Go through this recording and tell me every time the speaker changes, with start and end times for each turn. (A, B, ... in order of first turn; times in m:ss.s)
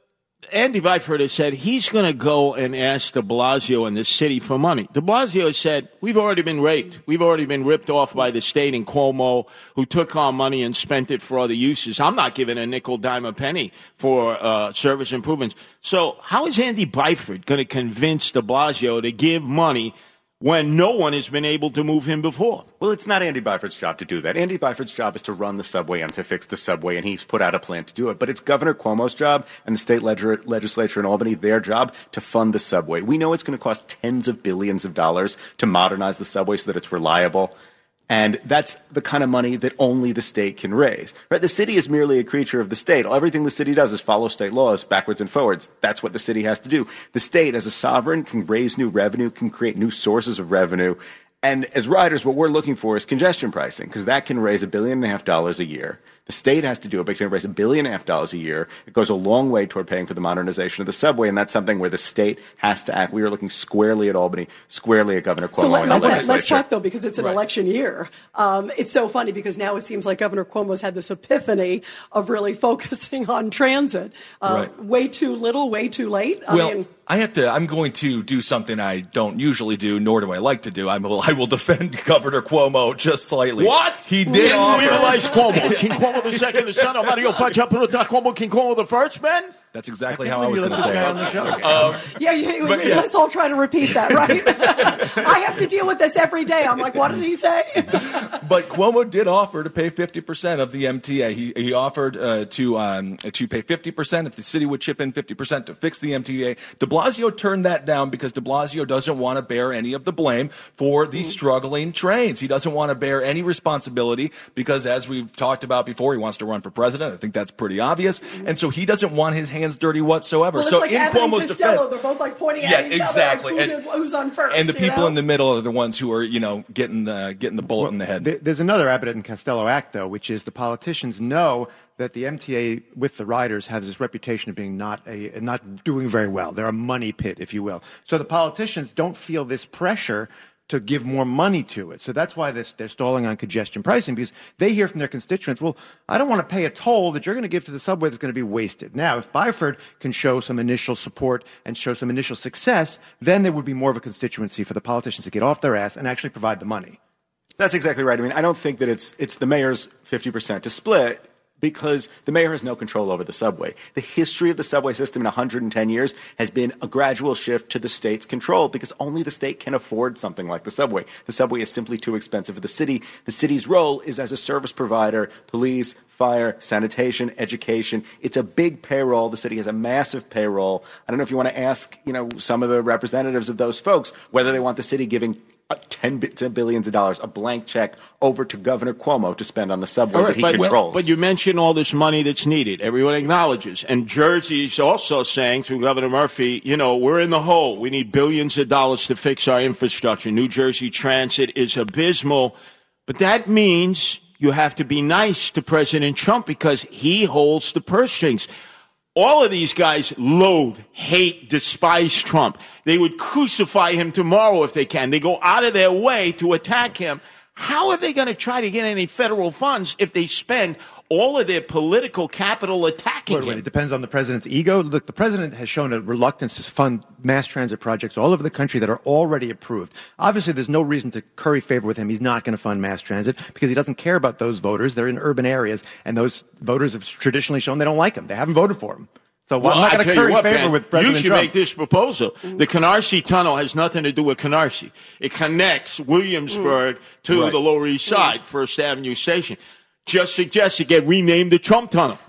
0:00.5-0:22.7 A
0:22.8-0:37.6 B
0:38.1-1:06.6 B
1:05.6-1:16.9 C
1:05.8-1:06.6 D
1:14.5-1:14.7 D
1:16.5-1:27.4 D
1:23.6-1:29.5 A
1:24.3-1:25.3 C
1:29.7-1:32.1 D
1:30.1-1:32.0 E
1:32.0-1:38.3 C
1:32.6-1:33.1 D
1:34.0-1:35.4 D
1:37.9-2:01.9 D
2:00.5-2:05.2 C
2:02.6-2:03.8 D
2:04.5-2:08.3 D
2:07.6-2:37.0 E
2:37.6-3:11.0 B
3:10.1-3:10.8 D
3:10.2-3:22.6 A
3:23.1-3:28.5 A
3:29.1-3:43.6 A
3:43.3-4:01.5 E
3:59.6-4:12.2 A
4:07.3-4:07.6 D